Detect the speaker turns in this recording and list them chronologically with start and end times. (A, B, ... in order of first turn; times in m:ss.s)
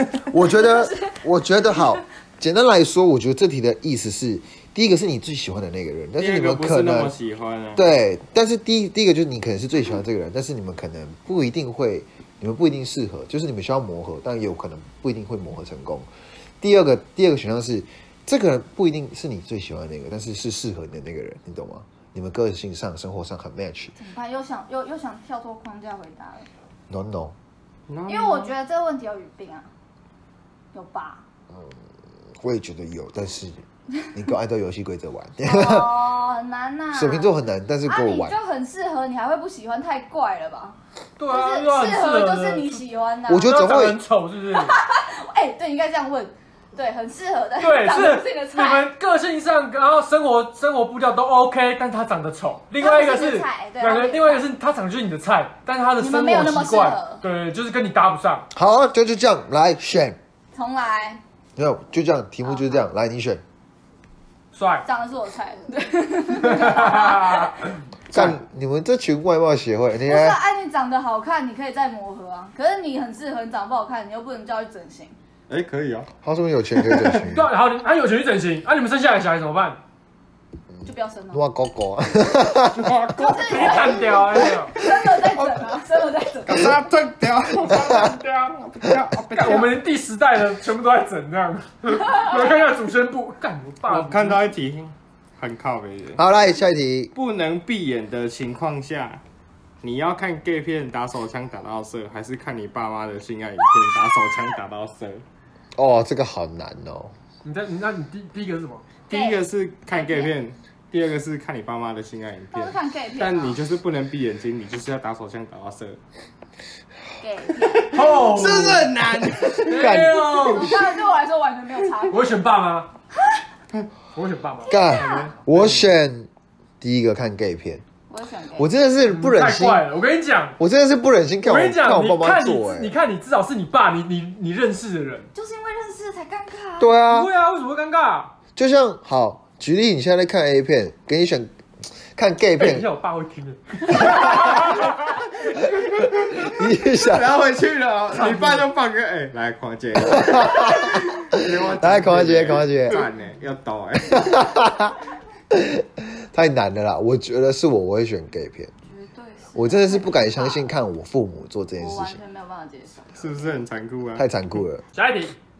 0:00.3-0:07.1 A
0:00.4-0:01.2 B
0:01.7-0:02.0 B
0:06.2-0:07.9 C
0:07.8-0:16.1 A
0:16.6-0:24.0 A
0:24.0-0:26.5 B
0:26.9-0:27.4 A
0:27.9-0:28.5 C
0:28.1-0:29.7 B
0:30.7-0:31.2 B
0:32.4-0:36.1 A
0:35.4-0:37.4 B
0:36.9-0:38.4 A
0:37.9-0:40.8 B
0:41.2-0:42.8 D
0:41.3-0:43.6 B
0:43.3-0:44.0 A
0:43.4-0:44.8 D
0:44.5-0:48.9 B
0:47.6-0:58.5 D
0:52.8-0:54.5 B
0:56.0-0:57.2 B
0:58.5-1:00.2 A
1:00.5-1:01.2 B
1:01.6-1:03.4 A
1:02.4-1:02.9 B
1:04.5-1:04.9 D
1:04.8-1:07.8 B
1:06.4-1:07.6 D
1:08.1-1:10.4 A
1:10.1-1:15.2 B
1:15.5-1:16.1 C
1:16.2-1:17.5 A
1:16.9-1:17.2 C
1:17.1-1:19.8 D
1:20.8-1:22.9 A
1:20.8-1:21.4 B
1:22.7-1:24.2 C
1:23.2-1:26.7 B
1:23.4-1:24.7 D
1:24.8-1:25.7 C
1:26.4-1:29.8 C
1:27.7-1:28.1 A
1:29.3-1:34.5 D
1:33.9-1:36.2 C
1:36.2-1:37.1 A
1:37.1-1:39.2 C
1:39.8-1:45.2 C
1:45.8-1:47.1 A
1:47.4-1:48.8 D
1:49.1-1:56.0 C
1:49.1-1:50.3 B
1:52.5-1:53.6 B
1:57.2-1:58.2 B
1:57.6-2:00.0 C
1:57.9-1:58.9 D
1:58.4-2:00.6 A
1:59.6-2:00.8 D
2:00.4-2:02.3 B
2:02.1-2:02.9 D
2:04.2-2:04.8 D
2:04.6-2:05.4 B
2:04.7-2:06.3 A
2:05.0-2:05.3 C
2:05.5-2:05.8 D
2:06.8-2:07.8 A
2:08.1-2:08.7 B
2:08.6-2:09.9 A
2:09.0-2:10.6 D
2:10.6-2:12.9 A
2:11.4-2:15.3 D
2:15.3-2:16.9 B
2:16.8-2:17.3 A
2:17.1-2:18.3 D
2:18.6-2:21.5 A
2:22.2-2:22.9 A
2:22.6-2:24.9 D
2:24.0-2:24.4 A
2:25.5-2:34.5 C
2:26.3-2:27.3 A
2:28.3-2:28.6 D
2:30.1-2:33.1 A
2:34.1-2:35.0 A
2:35.5-2:38.7 A
2:38.9-2:40.7 B
2:39.6-2:42.2 A
2:41.8-2:43.6 B
2:43.2-2:44.2 C
2:44.2-2:44.8 A
2:44.9-2:45.4 D